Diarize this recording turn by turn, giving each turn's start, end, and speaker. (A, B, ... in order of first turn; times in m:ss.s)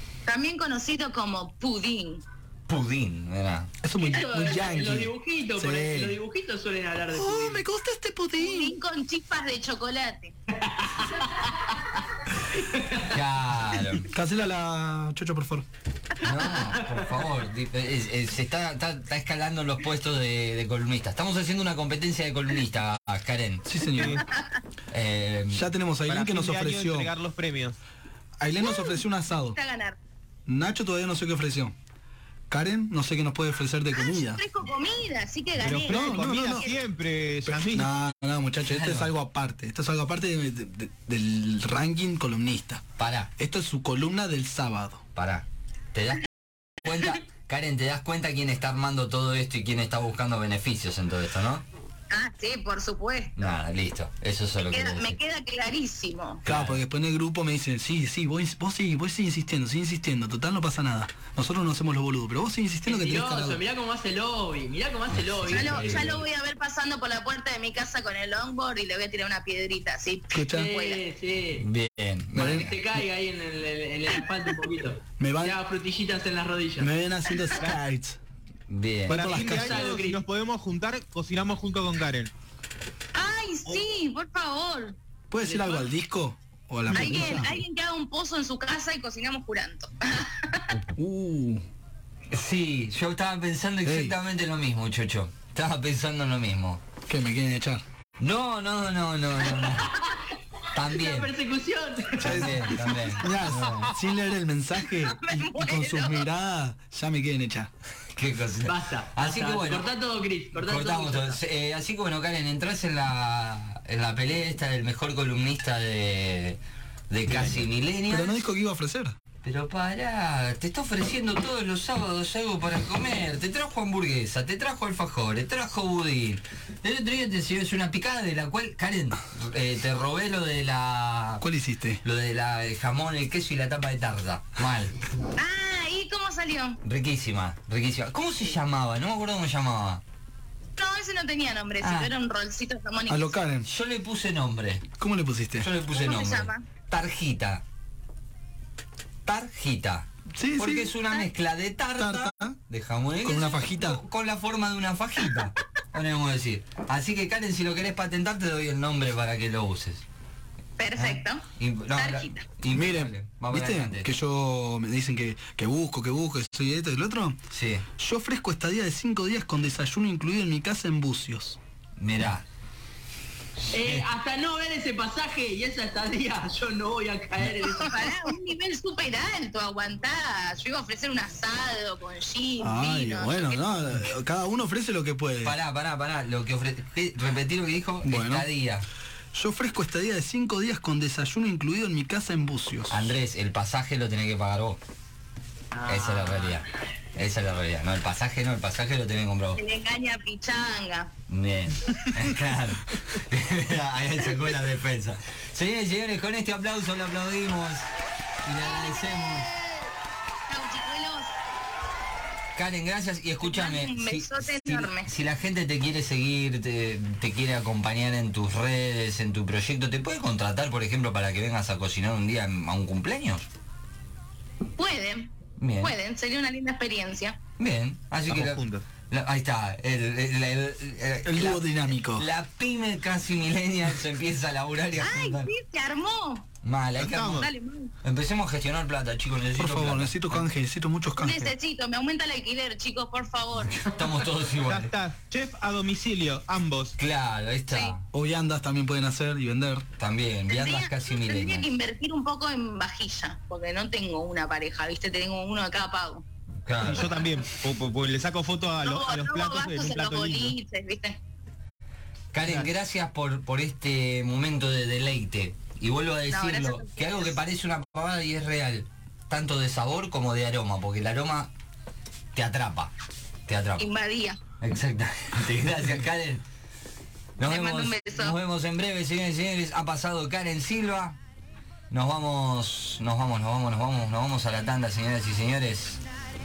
0:00.3-0:02.2 A
0:02.7-0:03.7 B
0:03.8-0:06.2 C
0:04.0-0:07.6 D
0:07.1-0:08.7 C
0:08.4-0:10.4 A
0:10.6-0:11.9 D
0:12.6-0:13.1 D
0:13.0-0:14.1 B
0:14.1-0:15.7 C
0:16.2-0:24.1 B
0:16.6-0:17.2 D
0:23.7-0:24.2 C
0:23.9-0:24.2 E
0:24.9-0:25.7 B
0:25.5-0:27.1 C
0:26.1-0:27.8 E
0:28.4-0:29.6 C
0:28.6-0:30.0 A
0:30.5-0:31.8 C
0:32.5-0:34.4 C
0:33.9-0:36.8 A
0:35.6-0:37.9 E
0:35.9-0:36.7 C
0:37.5-0:42.8 C
0:38.6-0:39.1 B
0:43.0-0:43.3 B
0:43.4-0:45.0 C
0:45.2-0:51.6 B
0:52.1-0:53.5 A
0:53.4-0:55.2 B
0:54.7-0:56.4 A
0:56.4-0:56.8 B
0:56.4-1:03.6 C
1:02.9-1:06.1 D
1:05.1-1:06.2 B
1:05.5-1:11.0 A
1:10.3-1:10.7 C
1:10.5-1:11.7 D
1:11.6-1:12.8 B
1:12.4-1:12.8 C
1:12.4-1:16.9 D
1:15.2-1:15.6 C
1:16.8-1:18.2 C
1:18.7-1:19.4 B
1:19.1-1:22.3 E
1:19.1-1:19.9 C
1:19.3-1:20.2 D
1:23.1-1:25.0 A
1:25.3-1:27.6 C
1:25.4-1:25.9 D
1:26.9-1:30.7 A
1:31.0-1:31.6 C
1:32.3-1:36.8 B
1:33.8-1:34.1 C
1:37.1-1:37.8 C
1:38.2-1:40.0 B
1:39.6-1:43.2 D
1:40.7-1:41.3 B
1:42.2-1:44.0 B
1:42.2-1:47.7 C
1:45.0-1:46.3 A
1:48.2-1:49.9 B
1:48.7-1:51.4 D
1:50.6-1:58.4 B
1:57.3-1:57.7 E
1:58.1-1:59.1 C
1:59.4-2:11.4 B
2:11.4-2:12.0 C
2:12.0-2:15.0 B
2:15.4-2:16.8 A
2:16.8-2:20.0 B
2:20.8-2:23.4 A
2:21.8-2:22.1 B
2:23.1-2:23.7 C
2:23.7-2:24.9 B
2:25.0-2:25.7 C
2:25.6-2:27.6 B
2:25.9-2:26.6 A
2:29.2-2:40.0 B
2:30.4-2:31.0 C
2:32.0-2:32.6 C
2:33.2-2:34.0 C
2:40.8-2:42.5 A
2:41.0-2:44.1 B
2:42.7-2:47.4 C
2:47.5-2:47.8 B
2:48.0-2:51.6 C
2:52.0-2:52.4 B
2:53.7-2:58.1 D
2:57.8-3:04.1 A
3:02.6-3:05.6 C
3:05.4-3:08.9 B
3:08.0-3:08.5 C
3:09.3-3:13.0 C
3:12.9-3:14.8 B
3:15.7-3:16.6 D
3:15.9-3:19.6 B
3:19.6-3:21.1 A
3:21.3-3:27.9 B
3:28.4-3:29.5 B
3:30.5-3:31.4 A
3:32.6-3:43.5 B
3:33.4-3:35.1 A
3:44.8-3:47.4 A
3:45.6-3:45.9 B
3:47.6-3:55.5 B
3:48.3-3:48.8 E
3:51.3-3:52.3 C
3:55.0-3:56.5 A
3:56.6-3:57.5 B
3:57.0-3:57.5 E
3:57.2-3:57.9 A
3:58.0-4:00.5 B
3:59.6-4:01.5 C
4:01.2-4:03.9 A
4:03.7-4:04.9 B
4:04.6-4:07.0 E
4:07.0-4:08.0 B
4:07.7-4:08.0 A
4:08.1-4:09.8 C
4:10.0-4:11.7 B
4:10.5-4:16.2 A
4:16.6-4:17.1 B
4:16.8-4:20.6 E
4:18.8-4:21.2 A
4:22.3-4:31.5 B
4:22.4-4:22.7 E
4:26.3-4:27.4 A
4:32.3-4:32.9 B
4:33.5-4:33.9 B
4:33.8-4:34.4 A
4:34.6-4:36.4 B
4:37.4-4:41.2 B
4:37.4-4:38.4 A
4:41.9-4:46.0 B